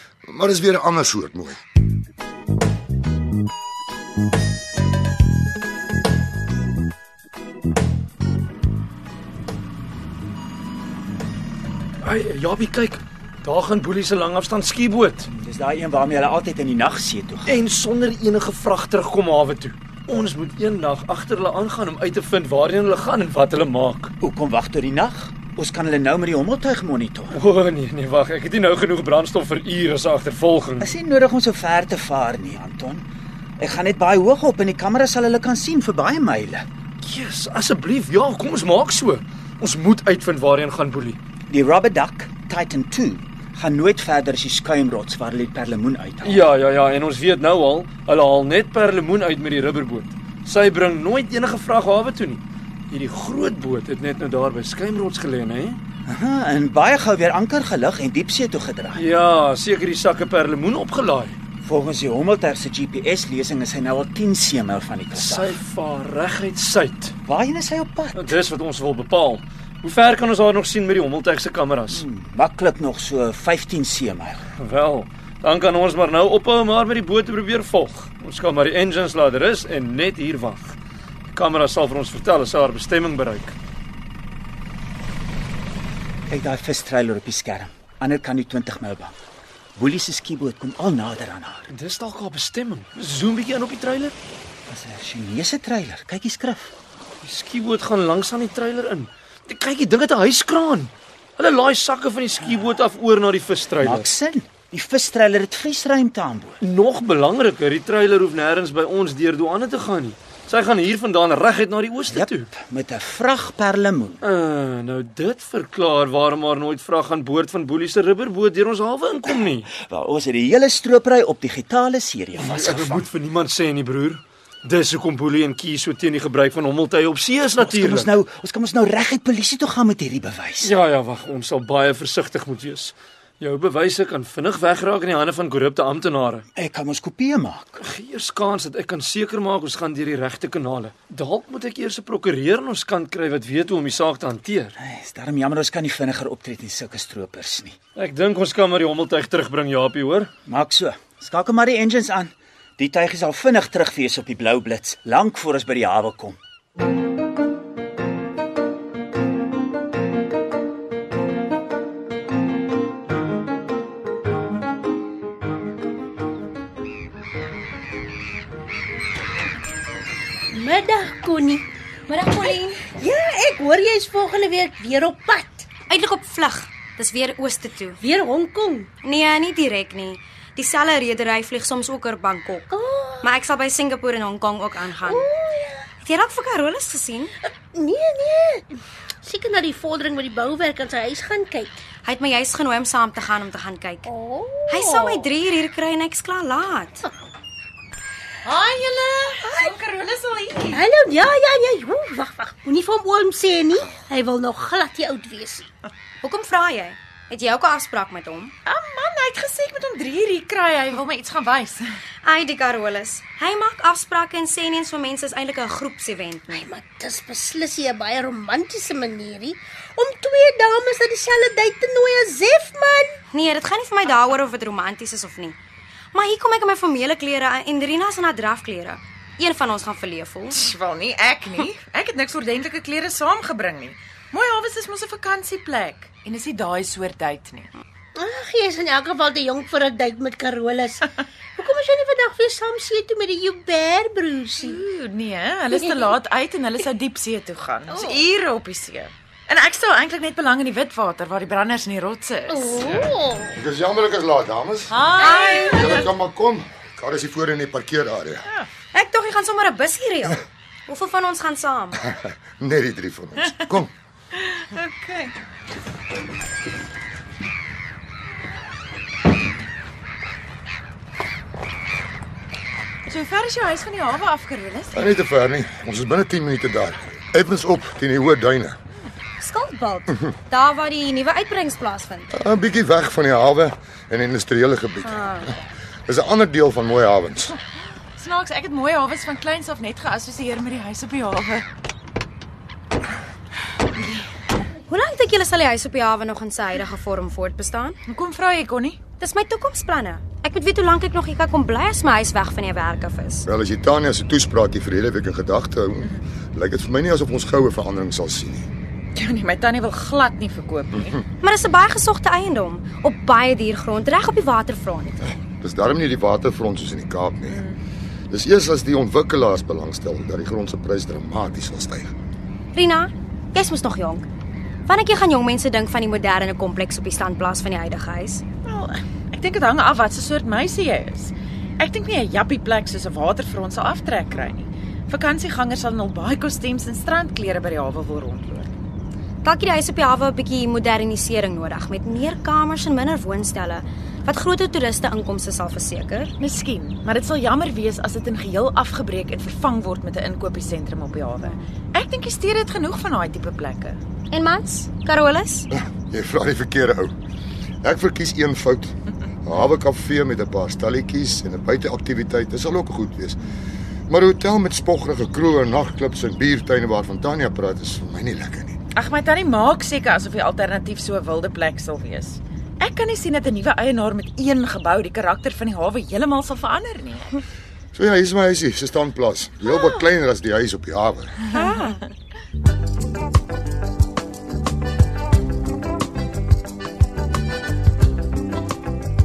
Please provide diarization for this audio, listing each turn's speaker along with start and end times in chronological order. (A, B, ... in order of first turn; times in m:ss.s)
0:00.3-0:01.6 A
0:12.0-0:15.3 B
0:15.3-0:17.6 C
0:17.5-0:24.1 B
0:24.2-0:27.4 C
0:27.3-0:30.9 B
0:30.8-0:33.0 C
0:33.6-0:36.6 C
0:37.0-0:41.2 B
0:41.5-0:46.5 C
0:46.2-0:55.8 B
0:56.1-0:59.0 C
0:59.0-1:01.4 B
1:01.6-1:05.6 C
1:05.1-1:07.2 B
1:07.3-1:08.4 C
1:08.2-1:12.0 B
1:11.9-1:14.4 C
1:14.6-1:20.8 B
1:21.3-1:23.6 B
1:26.3-1:29.2 C
1:29.8-1:31.7 C
1:31.7-1:34.2 B
1:34.7-1:36.7 C
1:37.2-1:44.1 B
1:43.8-1:46.6 C
1:46.6-1:52.5 B
1:52.1-1:54.2 C
1:54.2-1:59.7 B
1:59.7-2:03.1 C
2:02.4-2:08.1 B
2:07.6-2:10.7 C
2:10.6-2:16.4 B
2:16.6-2:17.8 C
2:17.8-2:24.7 B
2:24.8-2:27.8 C
2:28.0-2:30.3 B
2:30.5-2:36.4 C
2:50.6-2:51.6 D
2:52.1-2:52.9 E
2:52.9-2:55.5 D
2:55.9-2:58.0 E
2:58.1-2:58.8 D
2:59.0-3:02.7 E
3:03.2-3:05.3 E
3:06.0-3:07.3 E
3:07.8-3:08.6 D
3:09.3-3:11.7 D
3:12.0-3:14.1 E
3:14.7-3:17.0 E
3:18.4-3:20.8 F
3:20.7-3:25.6 D
3:26.2-3:28.5 E
3:28.7-3:31.8 F
3:32.2-3:36.7 E
3:36.7-3:43.0 D
3:43.3-3:45.6 E
3:46.1-3:50.7 E
3:50.6-3:57.7 F
3:58.2-4:01.0 D
4:01.6-4:04.7 D
4:04.6-4:13.1 F
4:12.8-4:13.5 D
4:13.5-4:15.0 A
4:14.9-4:16.0 F
4:15.2-4:15.9 E
4:15.7-4:18.5 A
4:18.9-4:22.0 E
4:22.0-4:23.9 A
4:24.4-4:25.3 F
4:33.1-4:35.0 F
4:34.9-4:38.8 A
4:39.4-4:42.3 E
4:42.3-4:47.6 A
4:45.0-4:45.5 E
4:48.2-4:51.6 F
4:54.9-4:58.0 E
4:58.1-4:59.0 F
4:59.2-5:03.5 E
5:03.5-5:08.7 A
5:09.2-5:11.2 F
5:11.4-5:15.3 E
5:15.4-5:17.6 A
5:17.5-5:17.8 F
5:18.3-5:22.1 A
5:22.8-5:24.3 E
5:24.9-5:28.4 E
5:28.6-5:38.7 F
5:39.4-5:46.3 E
5:46.4-5:54.0 F
5:51.4-5:51.7 E
5:54.3-5:55.7 E
5:55.7-5:57.1 A
5:57.8-5:58.9 A
5:59.4-6:03.4 A
6:04.1-6:08.8 A
6:09.0-6:17.3 F
6:17.9-6:21.4 A
6:21.5-6:22.0 E